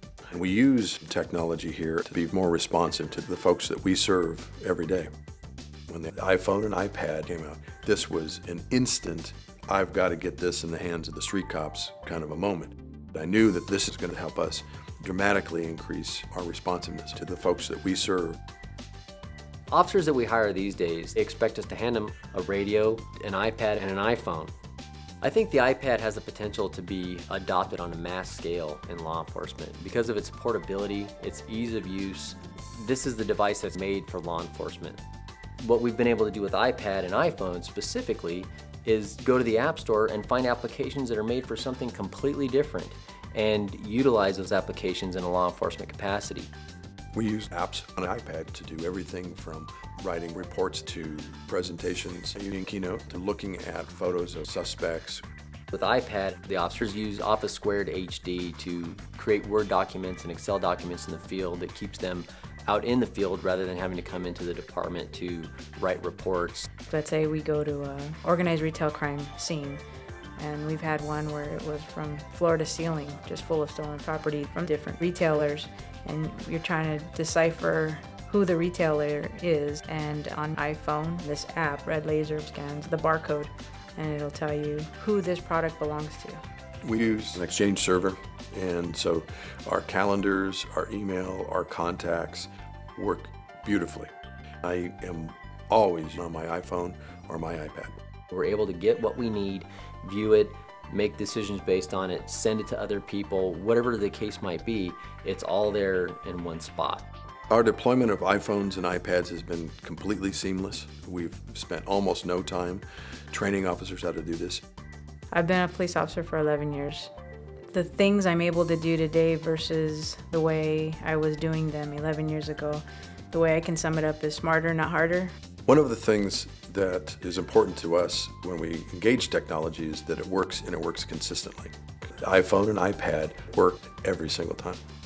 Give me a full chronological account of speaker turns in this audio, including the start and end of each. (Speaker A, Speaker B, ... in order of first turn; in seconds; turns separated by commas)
Speaker A: 0.3-5.1, Speaker A: 5.9-18.4, Speaker B: 19.7-24.5, Speaker B: 25.2-35.0, Speaker B: 35.6-46.5, Speaker A: 47.1-55.2, Speaker B: 55.7-66.7, Speaker C: 66.9-69.8, Speaker C: 70.4-86.4, Speaker A: 86.8-94.1, Speaker A: 94.6-98.0, Speaker B: 98.3-107.0, Speaker A: 107.5-114.6, Speaker C: 115.3-117.1, Speaker C: 117.7-125.3, Speaker A: 125.7-134.8